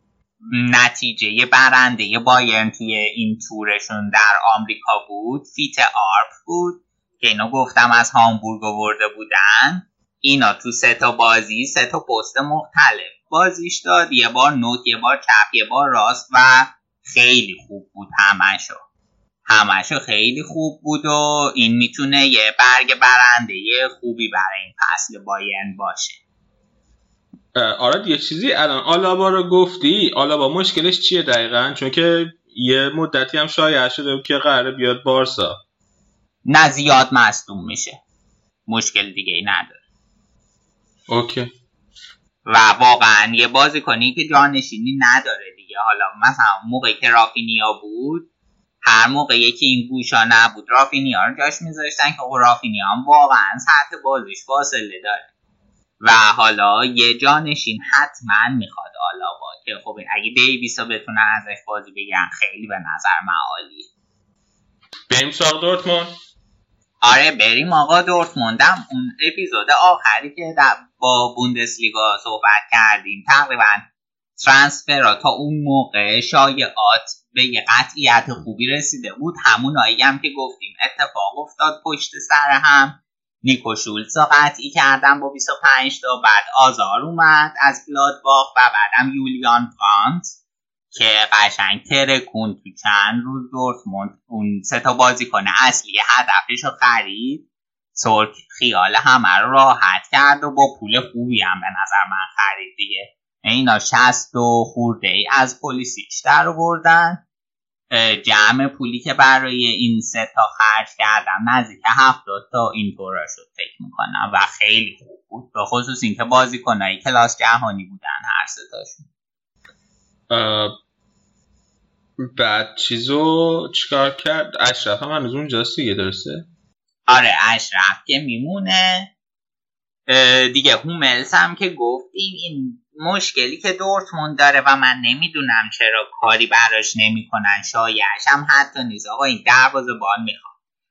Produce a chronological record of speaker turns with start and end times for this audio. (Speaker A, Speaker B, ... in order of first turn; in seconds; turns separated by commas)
Speaker A: 0.5-18.8, Speaker A: 19.5-26.2, Speaker B: 27.6-35.6, Speaker A: 36.5-38.0, Speaker A: 38.7-39.8, Speaker B: 41.1-41.5, Speaker A: 42.5-48.2, Speaker A: 48.8-55.2, Speaker A: 56.0-63.9, Speaker B: 65.1-66.1, Speaker A: 67.0-73.8, Speaker A: 74.4-90.3, Speaker A: 90.9-97.4, Speaker A: 97.9-107.2, Speaker A: 107.9-119.1, Speaker B: 120.3-120.7, Speaker B: 122.2-126.4, Speaker A: 127.1-129.1, Speaker A: 130.1-140.5